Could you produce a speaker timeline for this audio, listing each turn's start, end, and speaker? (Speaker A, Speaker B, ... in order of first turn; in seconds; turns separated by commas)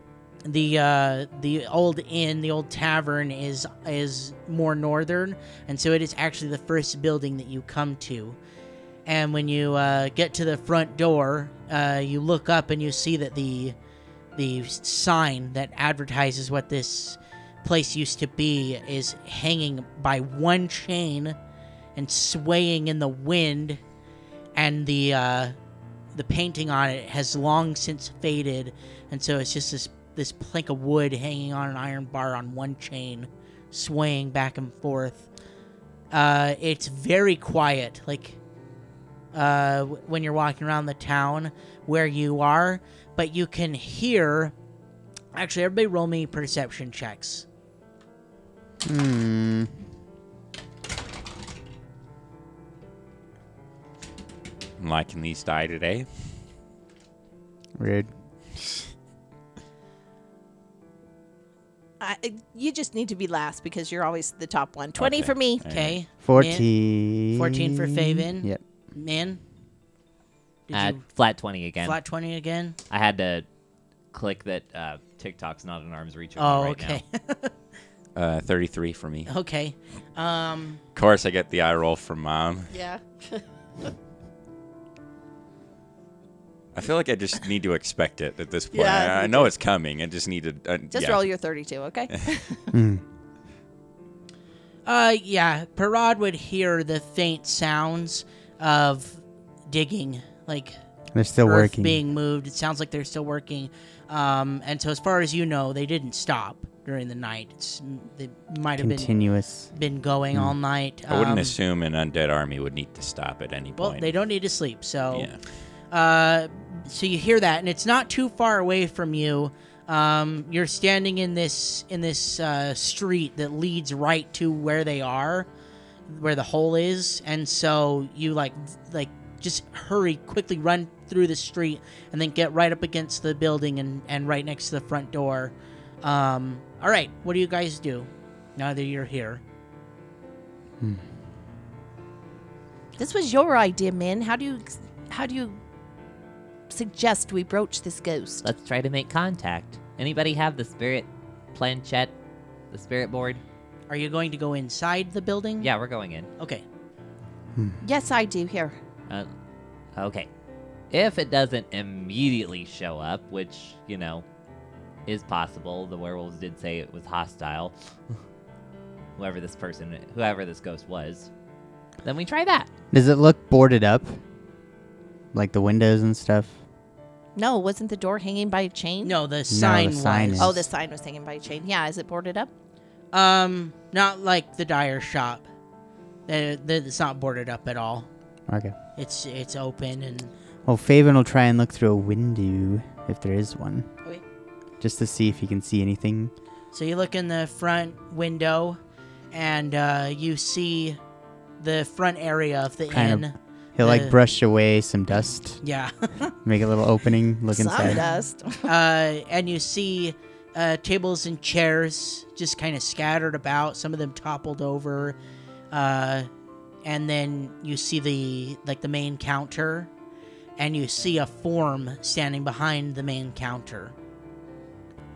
Speaker A: 0.5-8.4, Speaker A: 9.1-13.8, Speaker A: 14.3-21.4, Speaker A: 21.9-23.8, Speaker A: 24.6-25.6, Speaker A: 26.1-35.3, Speaker A: 36.1-38.4, Speaker A: 39.3-44.5, Speaker A: 45.3-47.5, Speaker B: 48.8-49.8, Speaker C: 54.8-56.4, Speaker B: 57.8-58.1, Speaker D: 62.0-65.6, Speaker C: 65.0-66.0, Speaker A: 65.7-66.7, Speaker B: 66.2-68.6, Speaker A: 67.3-69.4, Speaker A: 70.7-71.0, Speaker E: 70.7-72.0, Speaker A: 71.8-72.8, Speaker E: 72.9-73.5, Speaker E: 74.1-77.0, Speaker A: 76.4-77.5, Speaker C: 78.2-79.3, Speaker A: 79.3-80.8, Speaker C: 81.0-82.8, Speaker D: 82.7-83.4, Speaker C: 86.8-91.3, Speaker D: 88.7-89.5, Speaker D: 90.9-92.7, Speaker B: 92.7-93.0, Speaker A: 94.8-100.8, Speaker B: 101.2-102.0, Speaker A: 101.4-109.1, Speaker B: 108.8-109.7, Speaker A: 109.7-111.6, Speaker C: 111.1-114.1, Speaker A: 113.8-115.3, Speaker C: 115.1-115.4, Speaker A: 115.9-125.5, Speaker A: 126.1-139.4, Speaker B: 140.8-141.1, Speaker D: 143.0-145.6, Speaker D: 146.7-148.5, Speaker E: 148.4-152.1, Speaker E: 152.7-153.4, Speaker A: 153.9-155.7, Speaker E: 155.6-156.3, Speaker A: 156.4-156.6, Speaker B: 157.6-157.8, Speaker D: 157.8-158.8, Speaker E: 160.0-160.3, Speaker E: 160.9-164.2, Speaker E: 165.1-167.7, Speaker E: 169.2-171.3, Speaker E: 172.0-172.7, Speaker B: 172.9-174.2, Speaker B: 175.3-176.6, Speaker D: 177.4-179.2, Speaker A: 179.0-180.6, Speaker B: 179.5-180.7, Speaker D: 180.4-182.5, Speaker A: 183.1-185.5, Speaker A: 186.3-188.1, Speaker B: 188.5-188.7, Speaker A: 189.0-190.3, Speaker B: 190.7-193.9, Speaker B: 194.8-196.3, Speaker A: 196.7-198.8, Speaker A: 199.3-201.0, Speaker A: 201.6-204.2, Speaker B: 202.9-205.6, Speaker A: 205.6-206.3, Speaker B: 206.4-208.0, Speaker D: 207.5-208.7, Speaker A: 208.6-215.2, Speaker A: 215.7-216.3, Speaker A: 216.8-219.9, Speaker A: 220.6-223.9